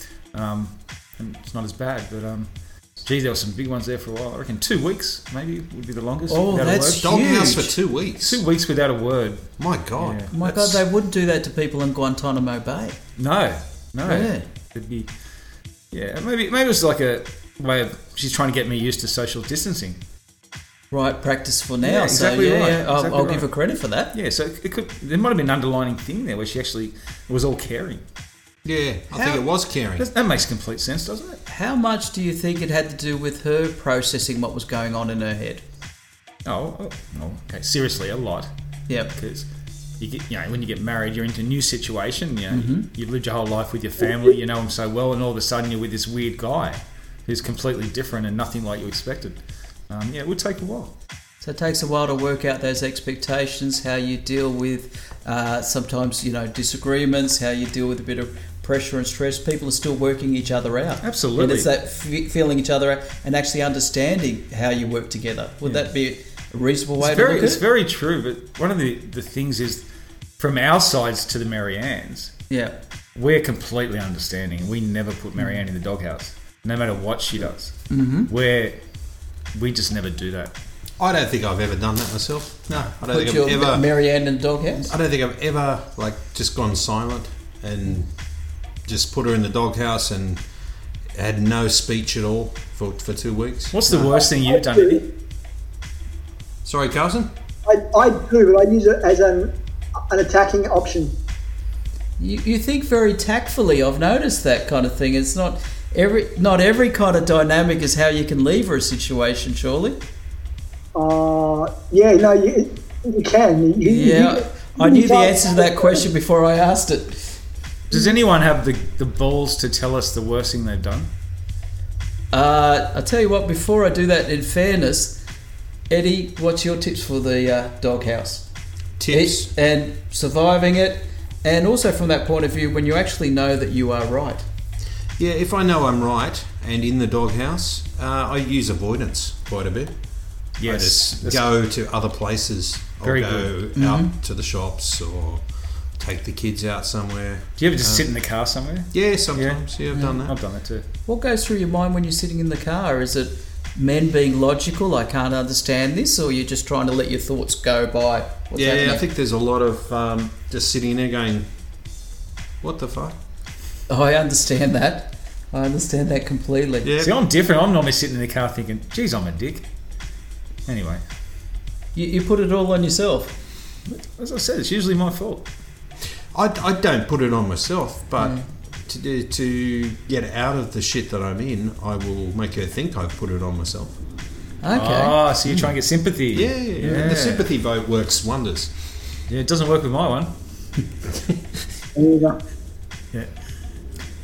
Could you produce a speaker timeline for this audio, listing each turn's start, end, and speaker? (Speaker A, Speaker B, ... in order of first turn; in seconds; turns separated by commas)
Speaker A: 0.3-7.2, Speaker B: 6.3-7.8, Speaker C: 7.3-8.3, Speaker A: 8.2-10.3, Speaker C: 9.6-10.1, Speaker B: 10.3-13.0, Speaker A: 13.2-15.1, Speaker B: 14.1-14.5, Speaker A: 15.9-20.0, Speaker B: 20.9-24.1, Speaker A: 21.8-23.5, Speaker A: 24.1-28.0, Speaker C: 28.7-30.0, Speaker A: 29.1-31.4, Speaker B: 31.5-35.6, Speaker A: 36.5-38.5, Speaker A: 39.1-39.5, Speaker A: 40.0-50.9, Speaker B: 42.5-42.9, Speaker B: 51.4-67.6, Speaker A: 61.0-61.7, Speaker A: 67.0-69.8, Speaker A: 70.4-72.3, Speaker B: 72.5-72.8, Speaker A: 73.2-77.7, Speaker B: 77.9-78.3, Speaker A: 78.3-78.8, Speaker A: 79.5-80.5, Speaker C: 81.0-83.8, Speaker B: 83.0-84.9, Speaker C: 84.9-87.8, Speaker C: 88.9-90.4, Speaker C: 91.2-93.7, Speaker A: 93.7-95.0, Speaker D: 94.0-95.0, Speaker C: 96.7-97.3, Speaker D: 97.7-99.5, Speaker D: 100.1-101.1, Speaker B: 102.2-110.0, Speaker D: 110.9-116.0, Speaker B: 113.8-117.3, Speaker A: 117.9-121.1, Speaker B: 122.3-125.2, Speaker B: 125.9-128.5, Speaker C: 129.0-129.5, Speaker B: 129.1-134.4, Speaker C: 135.2-139.9, Speaker A: 140.6-141.5, Speaker C: 140.8-145.4, Speaker A: 143.0-143.5, Speaker B: 143.8-144.1, Speaker C: 146.0-148.1, Speaker A: 147.6-149.6, Speaker C: 148.9-150.3, Speaker B: 149.9-150.2, Speaker A: 150.2-150.8, Speaker B: 151.1-159.0, Speaker C: 158.6-161.4, Speaker C: 162.6-163.1, Speaker B: 163.9-166.9, Speaker C: 166.8-167.1, Speaker A: 166.9-169.6, Speaker A: 170.7-171.0, Speaker B: 171.9-173.3, Speaker A: 173.9-175.5, Speaker C: 176.3-178.3, Speaker B: 178.2-178.5, Speaker C: 178.9-183.8, Speaker B: 184.6-185.2, Speaker A: 184.7-187.5, Speaker C: 186.3-188.7, Speaker A: 189.3-190.3, Speaker D: 192.0-192.4